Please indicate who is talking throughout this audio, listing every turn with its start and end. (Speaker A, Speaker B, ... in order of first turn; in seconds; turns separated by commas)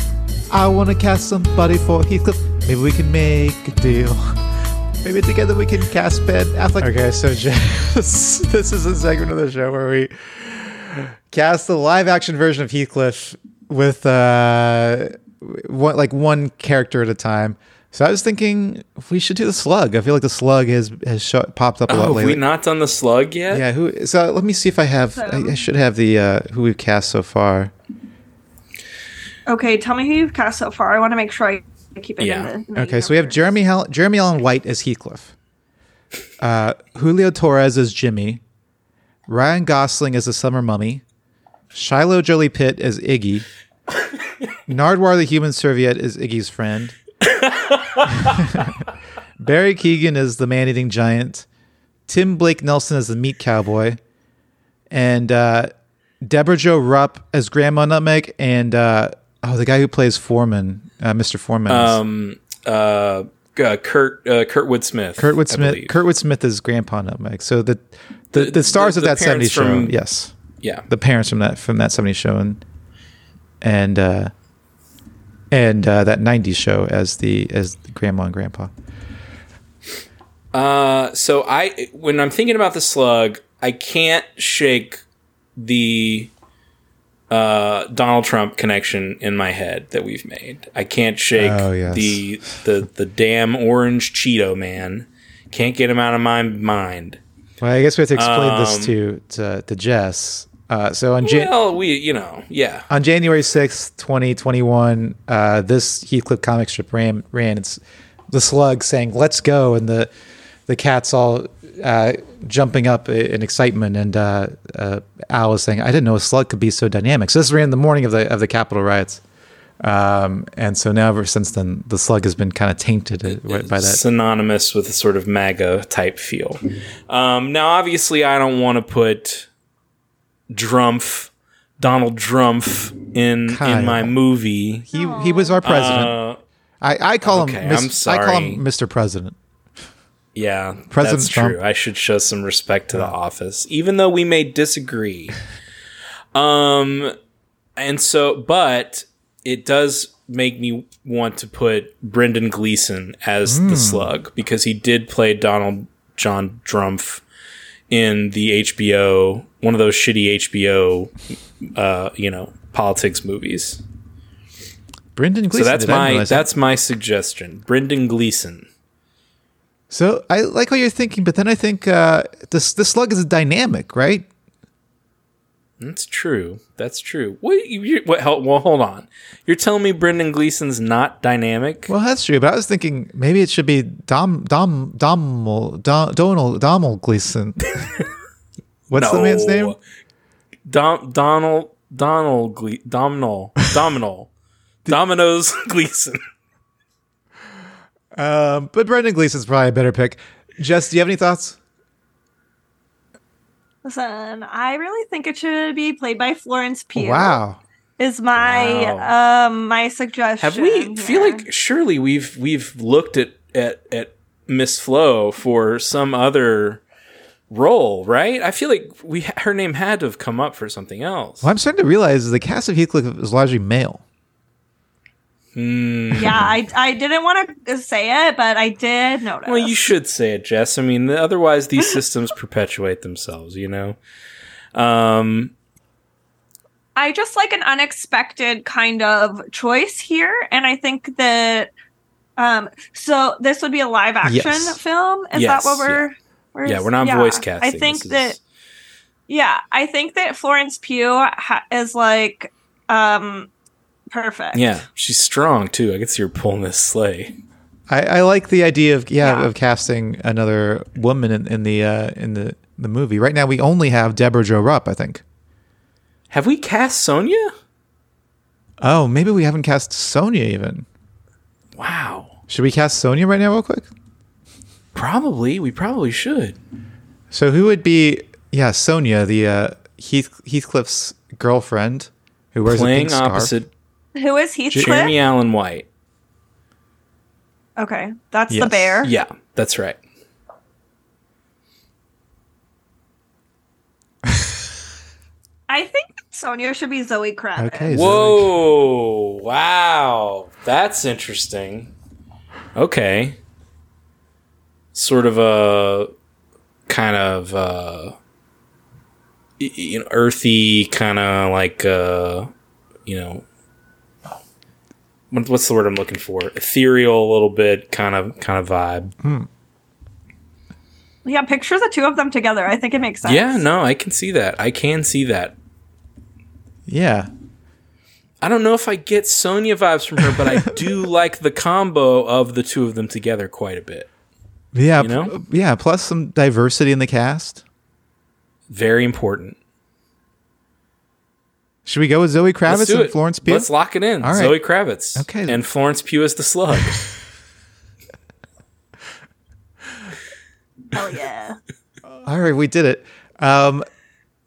Speaker A: 0.5-4.4, Speaker A: 5.0-22.4, Speaker B: 21.9-23.6, Speaker A: 23.5-27.7, Speaker C: 25.1-25.6, Speaker C: 29.5-33.5, Speaker B: 32.2-32.5, Speaker A: 32.8-35.3, Speaker A: 36.4-38.4, Speaker A: 39.3-41.0, Speaker A: 41.7-43.5, Speaker A: 44.7-47.0, Speaker B: 47.2-48.6, Speaker A: 48.2-48.7, Speaker A: 49.4-51.5, Speaker A: 52.1-54.0, Speaker A: 54.9-62.0, Speaker B: 61.7-65.9, Speaker A: 65.2-70.3, Speaker B: 68.3-69.9, Speaker A: 70.9-72.6, Speaker A: 73.6-74.3, Speaker A: 75.5-78.7, Speaker B: 80.5-85.0, Speaker B: 85.6-86.3, Speaker B: 87.3-97.2, Speaker A: 91.3-92.2, Speaker A: 97.6-101.5, Speaker B: 98.1-98.9, Speaker B: 101.2-102.9, Speaker A: 102.9-110.1, Speaker A: 110.7-119.2, Speaker A: 119.8-124.0, Speaker B: 123.2-129.5, Speaker B: 130.5-134.9, Speaker A: 133.5-134.1, Speaker C: 134.9-135.6, Speaker A: 134.9-136.1, Speaker B: 135.6-136.4, Speaker A: 136.8-139.3, Speaker B: 137.2-138.6, Speaker B: 140.3-145.4, Speaker A: 140.9-141.6, Speaker B: 146.3-147.1, Speaker B: 147.8-157.2, Speaker A: 153.4-154.1, Speaker B: 157.9-161.1, Speaker B: 161.7-163.8, Speaker A: 165.1-166.5, Speaker B: 165.5-168.7, Speaker A: 169.9-174.2, Speaker B: 175.8-181.9, Speaker A: 181.9-187.9, Speaker A: 188.9-189.8, Speaker B: 188.9-189.8, Speaker B: 190.7-194.3, Speaker B: 194.8-196.2, Speaker A: 198.1-201.6, Speaker C: 203.8-207.4, Speaker A: 206.9-207.6, Speaker C: 208.0-211.5, Speaker B: 208.3-209.1, Speaker B: 210.4-216.8, Speaker B: 217.5-221.5, Speaker A: 221.4-224.0, Speaker B: 225.5-226.6, Speaker C: 226.1-229.8, Speaker B: 229.4-234.0, Speaker B: 234.7-235.5, Speaker C: 236.9-241.7, Speaker C: 242.4-248.4, Speaker A: 244.2-244.8, Speaker B: 245.3-246.1, Speaker B: 246.7-248.4, Speaker C: 249.3-253.5, Speaker C: 254.1-254.8, Speaker B: 254.5-257.3, Speaker A: 257.9-265.2, Speaker C: 259.2-259.5, Speaker B: 266.3-267.5, Speaker A: 268.8-270.9, Speaker B: 271.8-272.3, Speaker A: 272.5-273.9, Speaker B: 274.9-276.6, Speaker A: 277.3-283.5, Speaker B: 282.6-283.7, Speaker C: 284.1-285.1, Speaker B: 284.7-285.9, Speaker C: 287.8-289.1, Speaker A: 288.5-289.1, Speaker B: 289.0-290.0, Speaker C: 295.7-298.2, Speaker A: 297.6-298.5, Speaker B: 297.9-301.9, Speaker B: 302.7-303.4, Speaker B: 304.9-306.1, Speaker B: 306.9-308.1, Speaker B: 309.6-312.5, Speaker B: 313.1-313.4, Speaker B: 315.3-319.1, Speaker A: 319.2-319.5, Speaker C: 321.2-323.6, Speaker B: 323.2-325.5, Speaker A: 326.9-327.3, Speaker B: 328.4-334.1, Speaker A: 330.4-330.7, Speaker A: 334.7-337.6, Speaker B: 335.0-335.3, Speaker B: 338.7-339.6, Speaker A: 341.9-343.7, Speaker B: 342.7-347.1, Speaker A: 344.2-344.6, Speaker A: 345.1-345.6, Speaker C: 350.9-351.6, Speaker A: 352.2-353.9